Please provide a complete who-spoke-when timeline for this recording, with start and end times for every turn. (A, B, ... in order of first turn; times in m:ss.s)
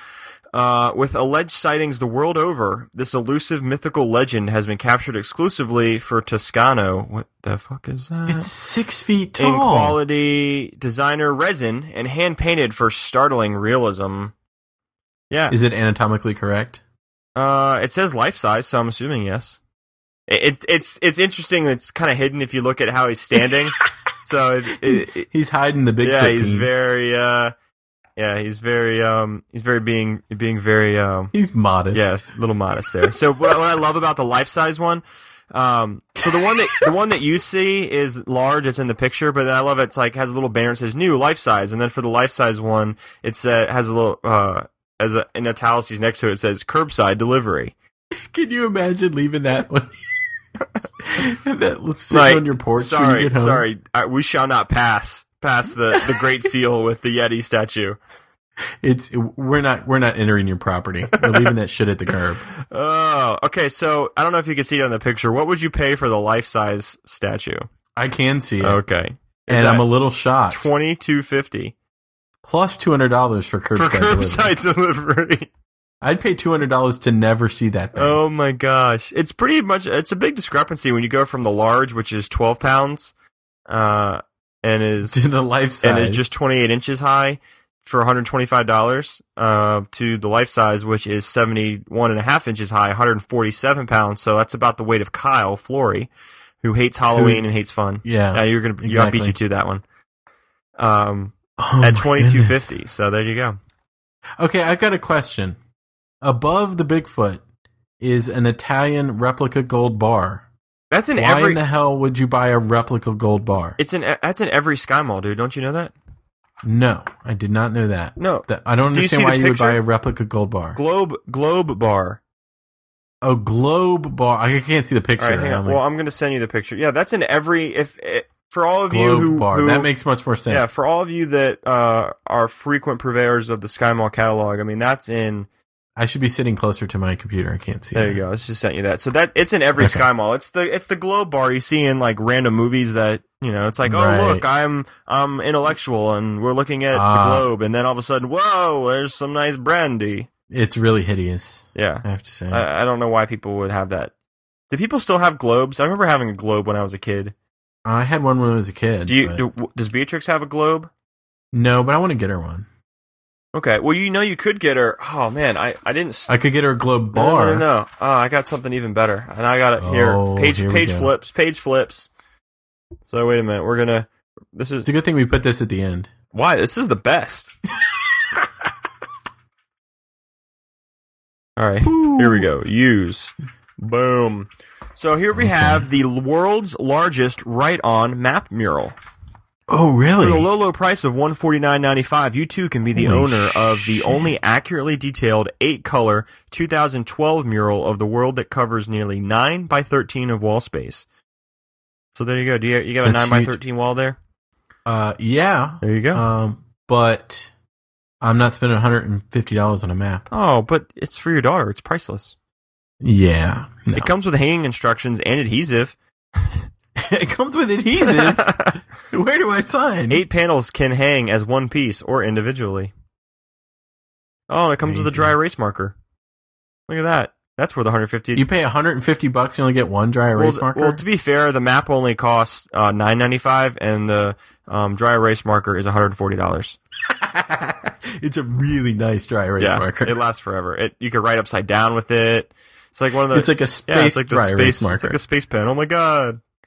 0:00.5-0:08.5 A
0:08.3-0:10.0 B
0:09.4-0:14.3 A
0:15.3-0:15.6 A
0:15.5-0:16.8 B
0:17.4-0:19.6 A
0:20.3-0:25.3 A
0:24.8-0:26.7 B
0:26.0-0:27.5 A
0:28.2-0:31.3 A
0:31.3-0:32.2 B
0:31.9-0:47.7 A
0:48.1-0:49.9 B
0:50.6-0:53.7 B
0:52.1-0:58.0 A
0:55.9-0:56.2 B
0:58.8-1:02.4 B
1:01.2-1:01.5 A
1:02.6-1:07.6 A
1:08.0-1:08.8 B
1:08.6-1:09.9 A
1:09.5-1:10.7 B
1:10.5-1:11.7 A
1:12.4-1:14.5 B
1:13.7-1:15.5 A
1:16.0-1:18.2 B
1:18.0-1:23.1 A
1:23.7-1:25.2 A
1:25.1-1:26.3 B
1:25.8-1:36.1 A
1:36.6-1:39.8 A
1:37.1-1:37.4 B
1:38.0-1:39.4 B
1:40.8-1:43.6 A
1:41.6-1:42.8 B
1:44.4-1:45.6 B
1:46.2-1:47.4 B
1:48.0-1:50.4 B
1:50.9-1:51.6 A
1:51.2-1:53.8 B
1:53.8-1:55.9 A
1:56.6-2:00.8 B
1:58.2-1:59.8 A
2:00.7-2:02.2 A
2:03.2-2:05.8 B
2:05.2-2:09.9 A
2:08.9-2:10.8 B
2:10.5-2:15.5 A
2:16.0-2:18.2 B
2:17.9-2:30.3 A
2:19.8-2:20.0 B
2:23.8-2:24.4 B
2:26.9-2:27.5 B
2:30.5-2:32.6 B
2:31.7-2:34.1 A
2:34.7-2:37.3 A
2:37.8-2:39.4 B
2:39.1-2:40.9 A
2:41.5-2:42.7 B
2:43.5-2:46.3 A
2:46.3-2:47.6 B
2:47.1-2:52.1 A
2:49.8-2:51.1 B
2:53.0-2:54.9 A
2:54.8-2:56.1 B
2:56.3-2:57.5 A
3:01.6-3:09.0 A
3:01.8-3:02.5 B
3:05.3-3:05.9 B
3:09.7-3:10.5 B
3:10.2-3:21.0 A
3:12.9-3:14.3 B
3:22.1-3:24.2 A
3:23.0-3:23.6 B
3:24.8-3:27.5 B
3:25.8-3:26.2 A
3:28.2-3:30.2 B
3:30.3-3:32.4 A
3:33.0-3:34.1 B
3:33.9-3:36.6 A
3:37.0-3:40.2 B
3:38.0-3:38.8 A
3:40.1-3:42.9 A
3:44.5-3:45.9 A
3:44.8-3:45.3 B
3:46.9-3:48.4 A
3:48.3-3:51.0 B
3:50.3-3:56.8 A
3:57.1-4:00.2 B
3:59.6-4:06.4 A
4:03.3-4:05.2 B